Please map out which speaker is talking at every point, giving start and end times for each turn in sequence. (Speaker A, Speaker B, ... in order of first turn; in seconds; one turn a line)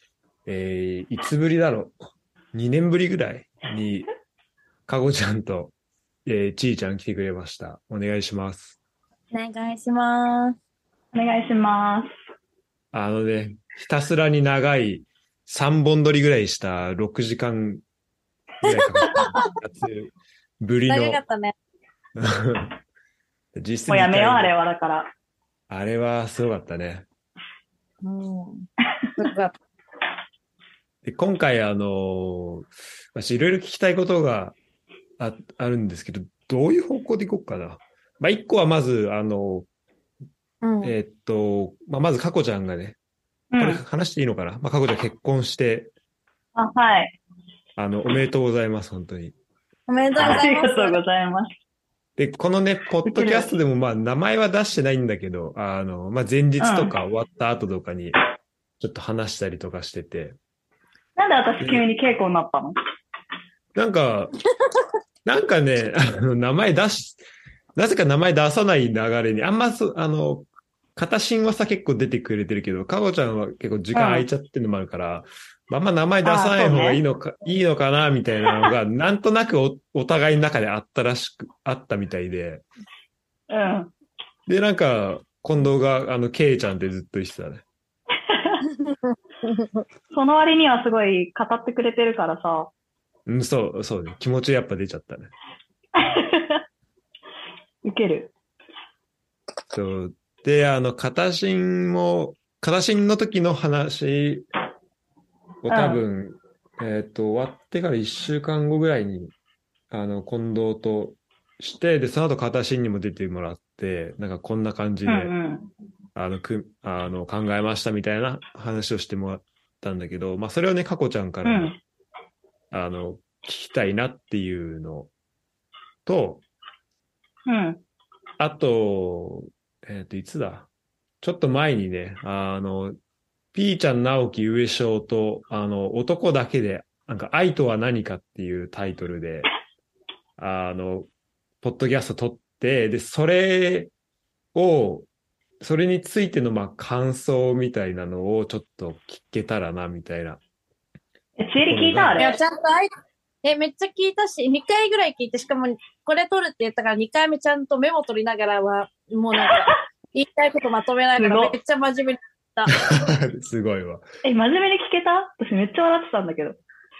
Speaker A: 0.5-1.9
Speaker A: 2.5-4.1
Speaker A: 4.9-5.7
Speaker A: 6.3-8.8
Speaker B: 9.3-10.6
Speaker C: 11.1-12.1
Speaker A: 12.9-17.8
Speaker A: 18.6-21.2
Speaker B: 18.6-19.3
Speaker B: 20.9-21.5
Speaker A: 22.2-22.7
Speaker A: 23.5-24.5
Speaker C: 23.9-25.1
Speaker A: 25.7-27.1
Speaker B: 28.0-29.6
Speaker A: 31.0-34.5
Speaker A: 35.2-39.7
Speaker B: 40.6-41.0
Speaker A: 40.8-43.0
Speaker C: 43.5-43.8
Speaker A: 43.6-45.9
Speaker C: 46.5-47.2
Speaker A: 47.8-49.3
Speaker B: 49.9-51.0
Speaker C: 50.2-51.5
Speaker A: 52.2-58.2
Speaker C: 53.0-53.5
Speaker C: 56.6-56.9
Speaker A: 58.8-60.4
Speaker C: 61.2-62.7
Speaker A: 61.6-61.9
Speaker A: 63.7-64.3
Speaker A: 65.2-67.2
Speaker A: 67.8-82.7
Speaker C: 73.9-74.3
Speaker C: 76.2-77.0
Speaker C: 83.5-83.9
Speaker A: 84.5-87.6
Speaker C: 88.3-88.6
Speaker B: 88.7-89.8
Speaker C: 90.1-92.7
Speaker A: 93.3-95.3
Speaker C: 96.0-96.6
Speaker C: 97.8-98.3
Speaker A: 99.7-104.5
Speaker A: 105.6-109.3
Speaker C: 105.7-106.0
Speaker A: 109.9-115.3
Speaker C: 115.1-115.7
Speaker A: 116.2-121.8
Speaker C: 121.5-121.8
Speaker A: 122.7-125.1
Speaker A: 126.1-126.4
Speaker C: 127.5-127.8
Speaker A: 128.4-130.7
Speaker A: 131.2-133.0
Speaker A: 133.5-139.5
Speaker A: 140.4-141.1
Speaker A: 141.6-143.9
Speaker A: 144.5-145.1
Speaker A: 145.6-150.4
Speaker C: 151.4-152.4
Speaker A: 151.6-152.3
Speaker B: 152.2-152.9
Speaker B: 153.4-162.7
Speaker C: 161.2-161.6
Speaker A: 162.7-164.1
Speaker C: 164.2-166.6